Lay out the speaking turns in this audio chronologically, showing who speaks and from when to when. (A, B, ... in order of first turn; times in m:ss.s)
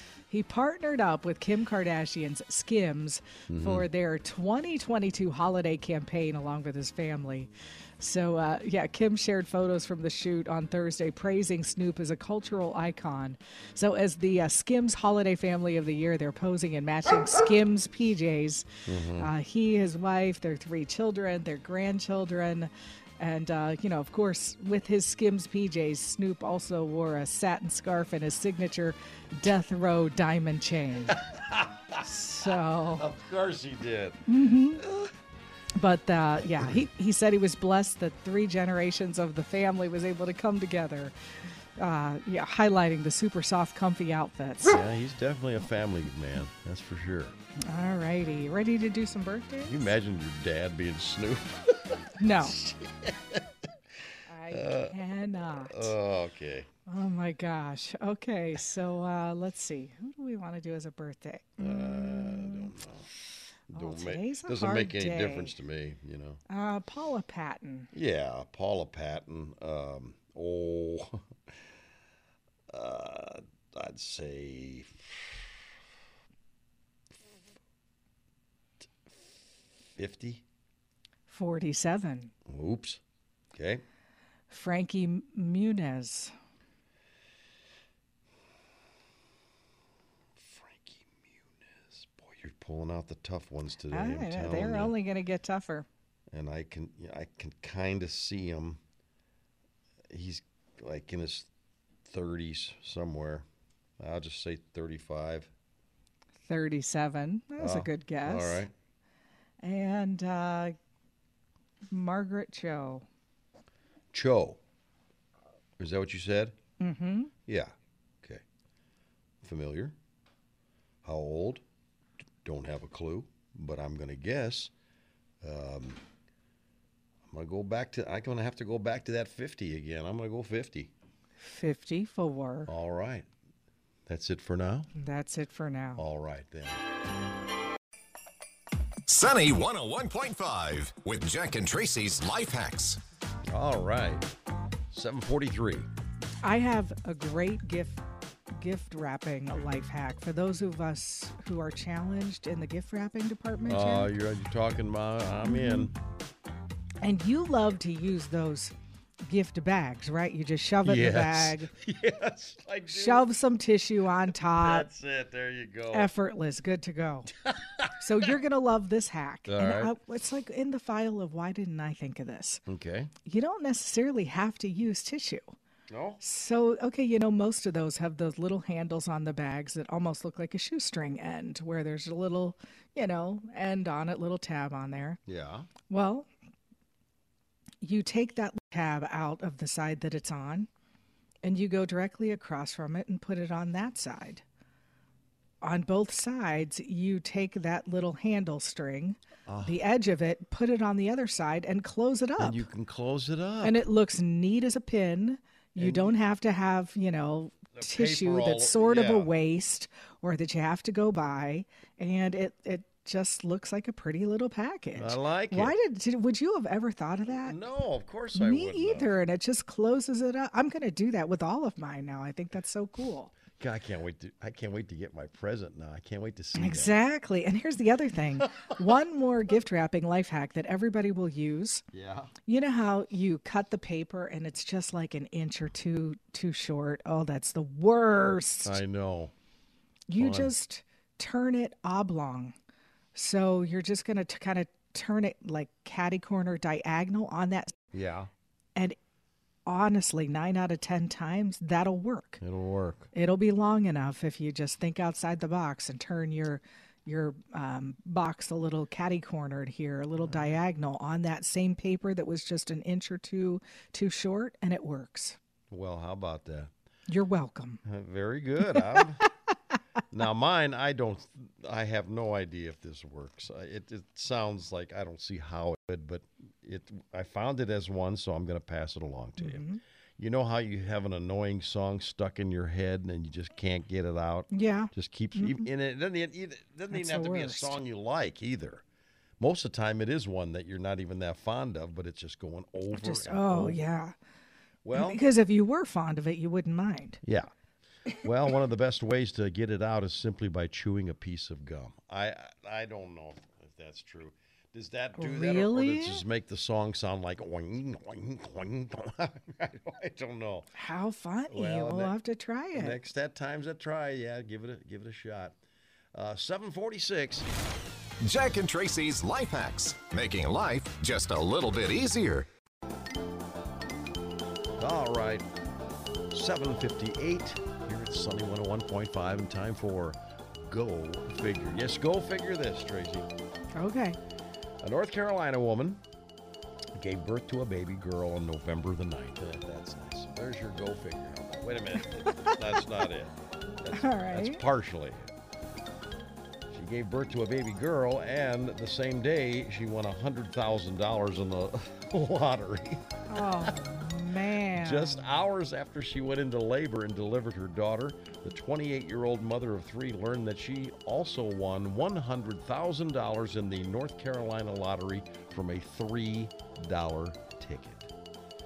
0:00.3-0:31.2 A
0:03.5-0:03.9 B
0:18.9-0:19.3 B
0:31.1-0:35.1 B
0:32.0-0:33.1 A
0:34.3-0:34.8 A
0:35.8-0:41.1 A
0:41.8-0:44.8 A
0:44.6-0:47.4 B
0:47.7-0:49.9 A
0:49.7-0:53.5 B
0:52.2-0:52.6 A
0:54.3-0:56.0 A
0:54.5-0:55.0 B
0:55.7-0:56.7 B
0:56.9-1:02.7 A
1:01.6-1:03.1 B
1:03.7-1:06.4 B
1:03.7-1:05.5 A
1:06.5-1:07.9 A
1:07.9-1:11.3 B
1:12.7-1:15.5 B
1:20.0-1:20.4 B
1:21.3-1:22.3 A
1:22.5-1:23.0 B
1:23.5-1:23.8 B
1:24.5-1:26.3 A
1:30.4-1:34.9 B
1:33.9-1:35.9 A
1:36.3-1:38.8 B
1:40.1-1:41.5 B
1:42.1-1:43.5 B
1:44.0-1:45.5 B
1:46.4-1:48.6 A
1:47.6-1:48.7 B
1:49.6-1:50.7 A
1:51.9-1:53.1 A
1:54.1-1:54.6 B
1:55.8-1:56.6 B
1:56.8-1:57.3 A
1:57.5-1:58.4 B
1:59.4-2:00.0 B
2:01.0-2:01.6 B
2:02.4-2:04.7 B
2:05.4-2:06.0 B
2:07.3-2:10.9 B
2:11.4-2:12.7 A
2:12.7-2:13.3 B
2:14.1-2:14.9 B
2:15.0-2:16.0 A
2:16.0-2:16.8 B
2:19.1-2:23.0 C
2:23.5-2:24.3 B
2:24.9-2:25.9 B
2:26.4-2:28.0 A
2:28.6-2:34.1 A
2:33.7-2:35.9 B
2:35.4-2:35.9 A
2:37.0-2:38.8 A
2:39.3-2:41.7 A
2:40.8-2:43.3 B
2:42.9-2:44.9 A
2:44.3-2:46.1 B
2:45.9-2:47.3 A
2:47.4-2:48.4 B
2:47.9-2:52.6 A
2:49.5-2:49.9 B
2:52.7-2:53.1 B
2:53.2-2:55.6 A
2:55.9-2:56.2 B
2:56.2-3:05.2 A
3:05.3-3:05.7 B
3:05.9-3:06.3 A
3:07.8-3:10.7 A
3:11.4-3:14.4 A
3:15.6-3:22.6 A
3:19.5-3:19.8 B
3:22.4-3:23.8 B
3:23.6-3:37.6 A
3:25.8-3:26.2 B
3:27.8-3:29.3 B
3:35.0-3:35.8 B
3:37.3-3:39.2 B
3:38.3-3:43.4 A
3:43.6-3:47.0 B
3:46.6-3:51.8 A
3:51.9-3:52.3 B
3:52.5-3:58.8 A
3:58.6-3:59.3 B
4:00.1-4:02.6 A
4:00.2-4:00.5 B
4:03.2-4:07.8 A
4:07.9-4:08.3 B
4:09.7-4:12.4 A
4:12.4-4:13.1 B
4:13.1-4:25.4 A
4:25.7-4:26.7 B
4:27.1-4:27.8 A
4:27.8-4:29.3 B
4:28.7-4:29.2 A
4:30.1-4:48.8 B
4:39.4-4:39.8 A
4:44.5-4:45.7 A
4:46.9-4:47.8 A
4:49.4-4:53.8 B
4:52.9-4:54.2 A
4:54.8-4:55.2 B
4:54.9-4:57.2 A
4:57.2-4:57.5 B
4:58.2-5:10.7 B
5:05.2-5:06.2 A
5:10.8-5:13.0 A
5:11.5-5:12.2 B
5:12.7-5:15.6 B
5:16.2-5:17.5 B
5:18.2-5:22.5 C
5:24.8-5:25.5 B
5:26.3-5:33.3 B
5:33.8-5:34.2 A
5:34.8-5:36.0 B
5:37.0-5:45.3 B
5:42.2-5:42.6 A
5:43.9-5:44.6 A
5:46.7-5:53.8 B
5:53.3-5:55.3 A
5:54.7-6:08.1 B